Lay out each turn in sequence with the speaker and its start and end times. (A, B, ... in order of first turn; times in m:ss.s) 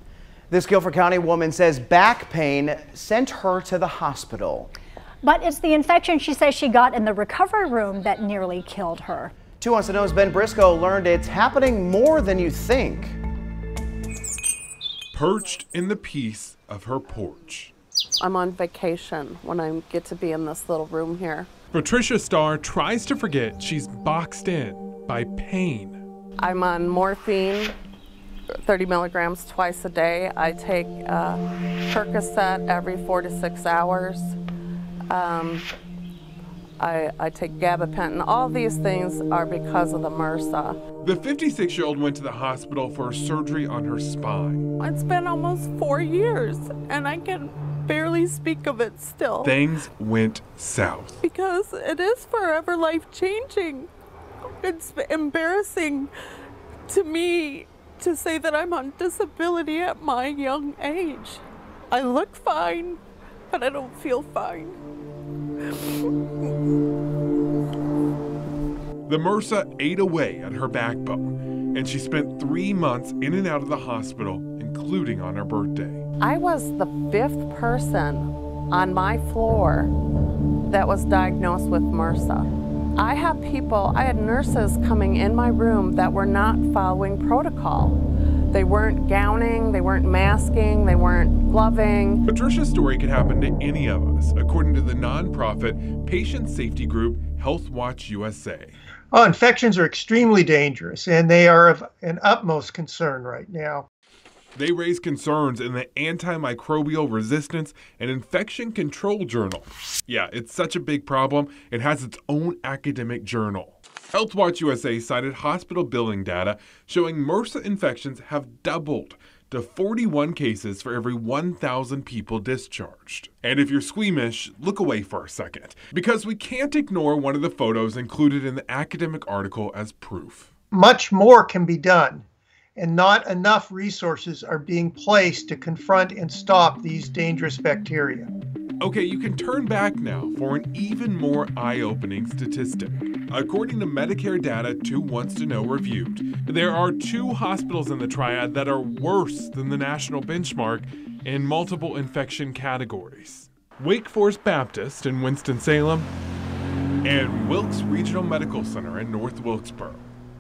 0:00.5-0:04.7 A
0:05.2-0:09.3 B
0:09.6-0:13.2 A
0:15.1-0:17.7 C
0:18.2-0:21.5 D
0:21.7-0:26.0 C
0:26.4-0:27.8 D
0:28.6-0:34.4 D
0:35.1-0:35.7 D
0:36.8-0:40.8 D
0:41.0-0:44.6 C
0:44.8-0:49.6 D
0:49.4-0:51.2 C
0:51.2-0:53.9 D
0:54.6-0:56.1 D
0:56.9-1:04.8 D
1:09.1-1:16.0 C
1:16.2-1:19.9 D
1:20.7-1:28.0 D
1:28.5-1:32.2 D
1:32.3-1:38.8 C
1:39.1-1:43.8 E
1:44.6-2:10.5 C
2:10.7-2:12.2 E
2:12.8-2:18.3 E
2:18.8-2:36.1 C
2:37.0-2:40.1 C